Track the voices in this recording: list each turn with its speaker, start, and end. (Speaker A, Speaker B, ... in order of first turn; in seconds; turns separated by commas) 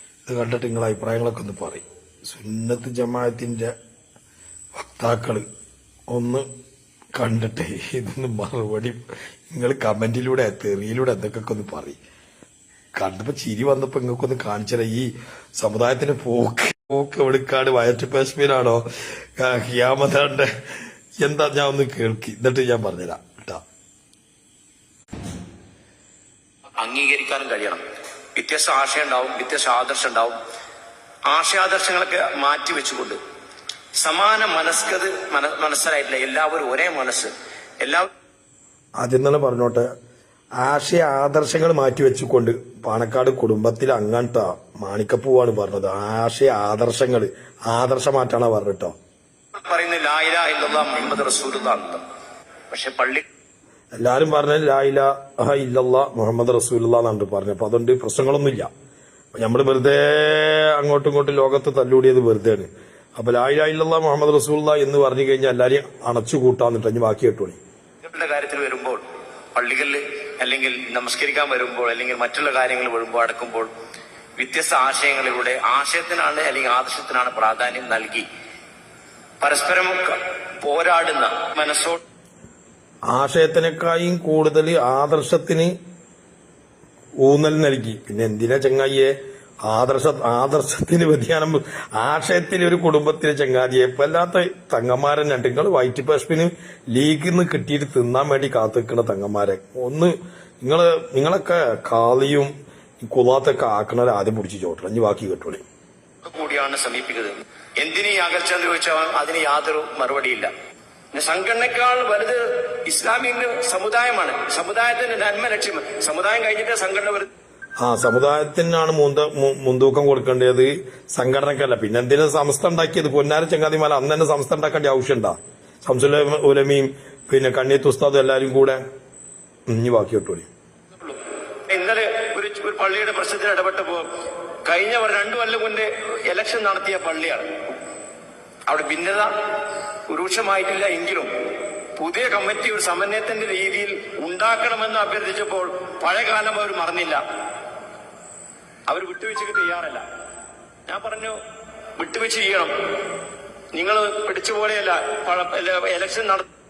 Speaker A: 0.3-3.7, Speaker A: 4.8-5.5, Speaker A: 6.1-6.5, Speaker A: 7.1-9.0, Speaker A: 9.5-12.0, Speaker A: 13.0-18.8, Speaker A: 19.4-20.5, Speaker A: 21.2-23.6, Speaker B: 26.8-27.8, Speaker B: 28.4-30.4, Speaker B: 31.3-33.2, Speaker B: 34.0-38.1, Speaker A: 39.0-39.9, Speaker A: 40.6-48.9, Speaker B: 49.6-52.0, Speaker B: 52.7-53.2, Speaker A: 54.0-58.7, Speaker A: 59.3-67.6, Speaker B: 68.0-69.0, Speaker B: 69.5-73.7, Speaker B: 74.4-78.3, Speaker B: 79.4-82.0, Speaker A: 83.1-85.7, Speaker A: 87.2-89.1, Speaker A: 89.7-105.6, Speaker B: 106.3-110.5, Speaker B: 111.1-117.3, Speaker A: 117.8-128.8, Speaker A: 129.7-130.5, Speaker B: 131.7-134.1, Speaker B: 134.7-137.5, Speaker B: 138.7-139.3, Speaker B: 140.1-141.3, Speaker B: 142.0-147.2, Speaker B: 148.9-150.0, Speaker B: 150.9-151.3, Speaker B: 152.0-152.7, Speaker B: 153.7-156.5